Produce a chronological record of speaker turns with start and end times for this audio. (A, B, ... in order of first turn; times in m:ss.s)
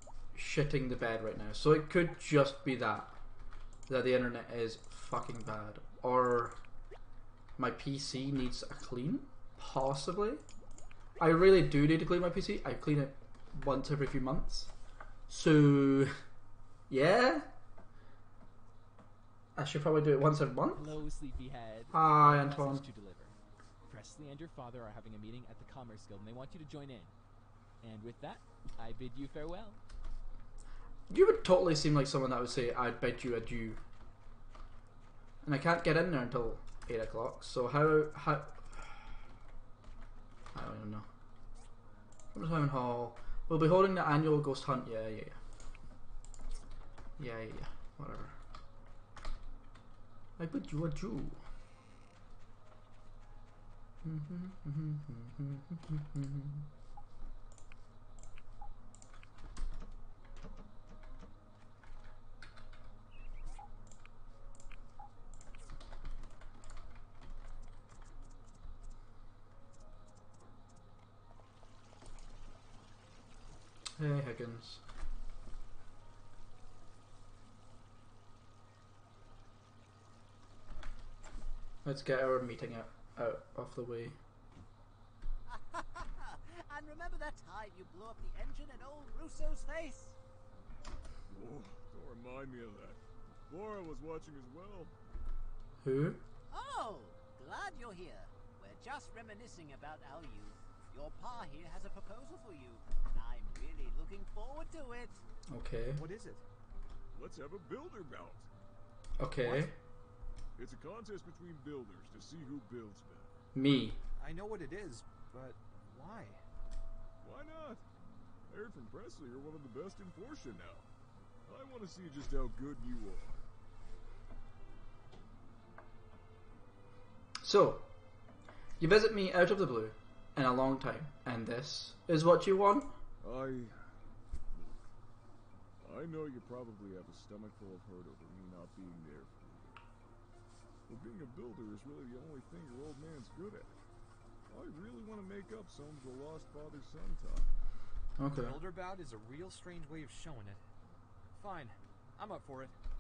0:00.3-0:03.1 A
0:03.9-0:06.5 A
0:07.6-0:10.4 A
0:11.2-0:14.7 A
0:15.3-0:16.1 A
0:16.9-0:17.5 A
0:19.6-0:20.8 A
0:20.7-0:23.3 B
0:21.9-0:22.8 A
0:23.8-0:27.1 B
0:27.8-0:29.8 B
0:31.1-0:33.8 A
0:35.4-0:38.9 A
0:40.5-0:41.0 A
0:42.3-0:45.4 A
0:47.2-0:48.3 A
0:50.4-0:51.4 A
0:54.0-0:56.6 A
1:14.0-1:14.8 A
1:21.8-1:24.2 A
1:25.4-1:30.2 C
1:31.3-1:34.9 D
1:35.8-1:36.2 A
1:36.5-1:45.2 C
1:45.5-1:46.0 A
1:46.0-1:46.4 E
1:47.1-1:48.5 D
1:49.2-1:49.7 A
1:50.6-1:53.3 D
1:53.5-1:54.0 A
1:54.2-1:56.4 E
1:57.2-1:57.8 D
1:58.5-2:00.9 D
2:01.5-2:03.4 D
2:07.4-2:07.8 A
2:08.8-2:12.9 A
2:13.2-2:13.9 D
2:14.5-2:14.9 D
2:15.8-2:19.8 D
2:20.9-2:23.8 D
2:24.5-2:27.6 D
2:28.2-2:28.6 A
2:28.4-2:30.6 E
2:31.3-2:32.8 E